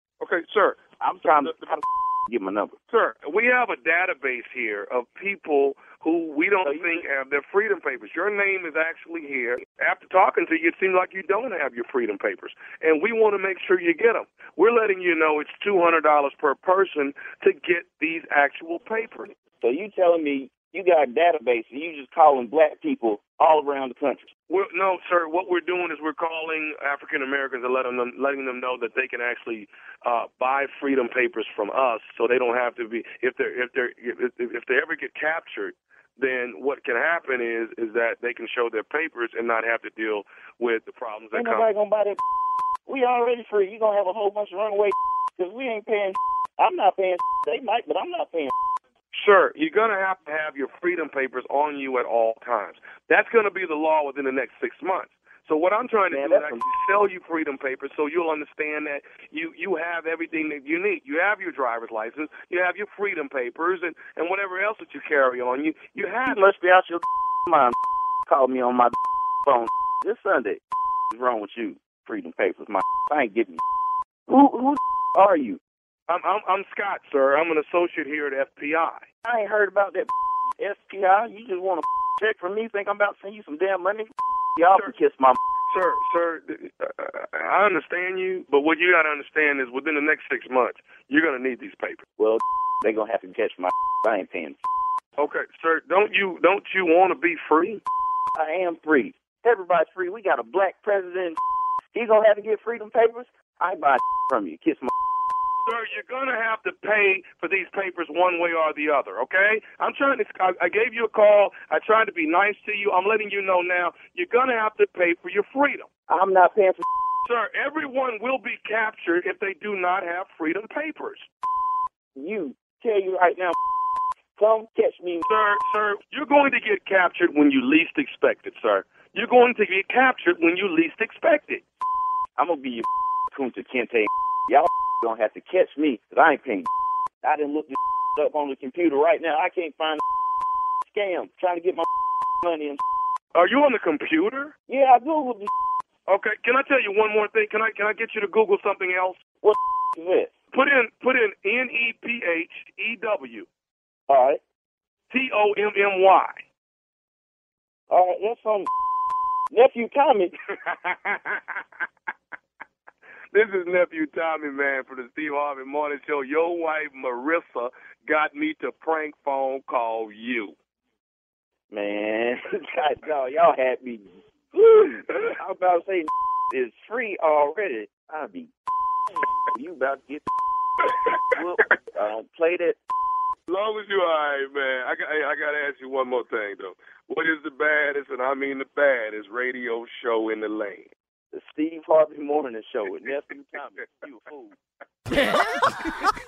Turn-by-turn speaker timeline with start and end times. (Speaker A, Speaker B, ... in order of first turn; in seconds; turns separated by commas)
Speaker A: 0.2-0.8, Speaker B: 1.0-2.7, Speaker A: 1.4-1.7, Speaker A: 2.9-19.3, Speaker B: 6.6-7.0, Speaker B: 19.6-24.3, Speaker A: 24.5-41.7, Speaker B: 41.3-42.2, Speaker B: 42.9-48.5, Speaker A: 49.1-66.5, Speaker B: 56.1-56.6, Speaker B: 66.2-67.8, Speaker B: 68.3-68.9, Speaker B: 69.4-73.6, Speaker B: 74.3-75.6, Speaker A: 76.1-79.0, Speaker B: 79.2-85.4, Speaker A: 85.7-92.0, Speaker B: 92.2-94.6, Speaker A: 95.2-97.8, Speaker B: 98.3-101.4, Speaker B: 101.9-104.9, Speaker A: 105.6-115.9, Speaker B: 116.1-116.8, Speaker A: 117.2-121.3, Speaker B: 122.1-123.5, Speaker B: 124.3-125.2, Speaker A: 125.2-131.6, Speaker B: 132.3-136.7, Speaker B: 137.2-140.0, Speaker B: 140.8-141.9, Speaker B: 142.4-142.8, Speaker A: 143.3-144.5, Speaker B: 144.7-145.5, Speaker A: 146.1-149.2, Speaker B: 149.4-150.3, Speaker A: 150.5-153.5, Speaker B: 154.1-154.4, Speaker A: 155.1-156.4, Speaker B: 157.9-158.7, Speaker B: 159.5-160.3, Speaker A: 160.6-161.6, Speaker A: 163.3-170.5, Speaker B: 171.7-178.5, Speaker A: 175.1-175.3, Speaker B: 179.5-180.2, Speaker B: 181.3-182.8, Speaker A: 183.5-190.9, Speaker B: 191.3-194.6